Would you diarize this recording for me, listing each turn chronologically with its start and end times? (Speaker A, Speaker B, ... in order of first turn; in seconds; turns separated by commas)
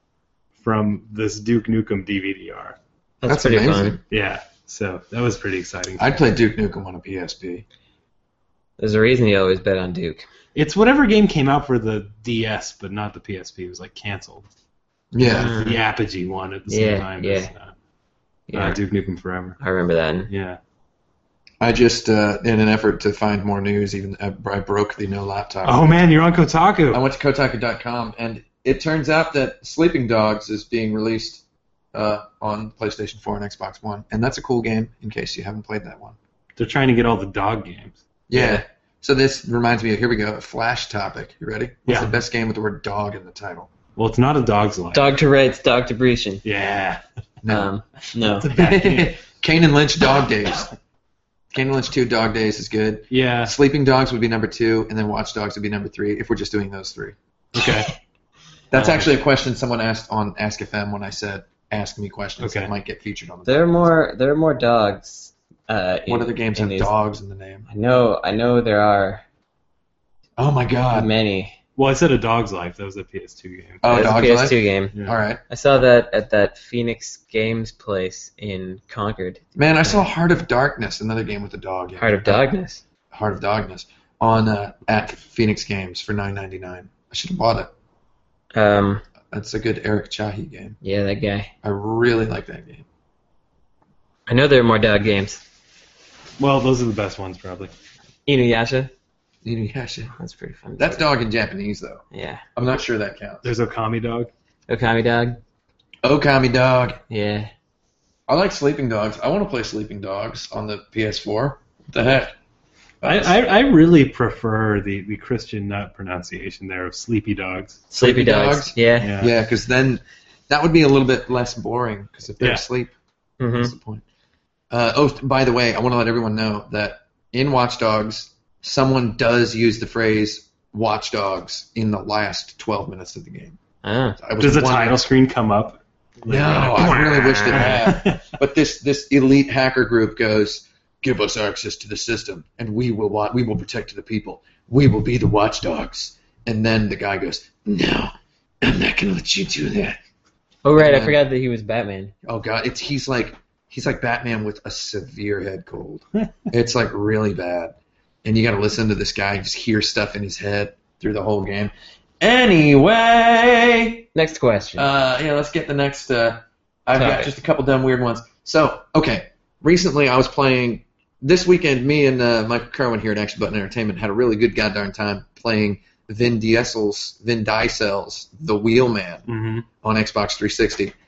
Speaker A: 0.6-2.8, Speaker B: 3.2-4.0, Speaker C: 3.2-4.0, Speaker A: 4.1-6.2, Speaker C: 6.0-7.6, Speaker B: 8.8-10.2, Speaker A: 10.5-14.4, Speaker C: 15.1-15.5, Speaker B: 15.2-15.8, Speaker A: 15.3-17.7, Speaker B: 16.7-17.5, Speaker B: 18.5-18.8, Speaker A: 18.5-19.6, Speaker B: 19.6-20.3, Speaker A: 20.3-20.6, Speaker C: 21.6-25.9, Speaker A: 25.6-27.0, Speaker C: 26.9-31.4, Speaker C: 31.9-36.1, Speaker A: 36.6-38.0, Speaker C: 38.3-43.7, Speaker B: 38.3-38.6, Speaker A: 41.9-42.1, Speaker A: 44.0-45.1, Speaker B: 44.9-46.4, Speaker A: 46.4-47.0, Speaker C: 47.4-47.7, Speaker B: 47.5-48.5, Speaker A: 48.2-49.2, Speaker C: 48.5-50.7, Speaker C: 51.5-57.1, Speaker A: 53.1-53.5, Speaker A: 57.5-57.9, Speaker C: 58.7-63.9, Speaker A: 58.8-59.0, Speaker A: 62.4-62.7, Speaker B: 63.5-66.9, Speaker C: 66.1-67.7, Speaker B: 67.7-69.2, Speaker C: 70.4-71.1, Speaker B: 70.9-71.5, Speaker A: 71.8-73.8, Speaker C: 73.8-75.4, Speaker B: 73.8-74.9, Speaker B: 75.5-80.0, Speaker C: 79.5-82.4, Speaker B: 82.0-82.8, Speaker C: 83.1-87.7, Speaker B: 88.5-89.0, Speaker C: 89.3-90.8, Speaker B: 90.8-91.5, Speaker C: 91.6-92.8, Speaker B: 94.3-95.4, Speaker A: 96.4-97.7, Speaker B: 98.2-98.9, Speaker C: 99.4-100.1, Speaker B: 100.2-101.0, Speaker C: 100.8-102.0, Speaker B: 102.1-102.4, Speaker C: 102.5-103.5, Speaker A: 103.4-104.3, Speaker B: 104.7-105.4, Speaker C: 106.0-107.0, Speaker B: 107.1-107.5, Speaker C: 108.3-112.3, Speaker C: 113.0-113.3, Speaker A: 113.0-117.8, Speaker B: 117.9-119.1, Speaker C: 117.9-122.9, Speaker A: 119.0-119.3, Speaker B: 123.4-123.7, Speaker C: 123.5-124.0, Speaker C: 124.7-133.6, Speaker B: 133.8-134.2, Speaker C: 134.2-135.0, Speaker A: 134.4-138.2, Speaker B: 136.2-137.8, Speaker C: 136.3-150.0, Speaker B: 150.6-152.1, Speaker C: 150.7-151.2, Speaker C: 152.2-164.1, Speaker B: 164.1-164.9, Speaker C: 164.8-179.3, Speaker B: 166.9-167.3, Speaker A: 179.3-179.7, Speaker C: 179.8-180.9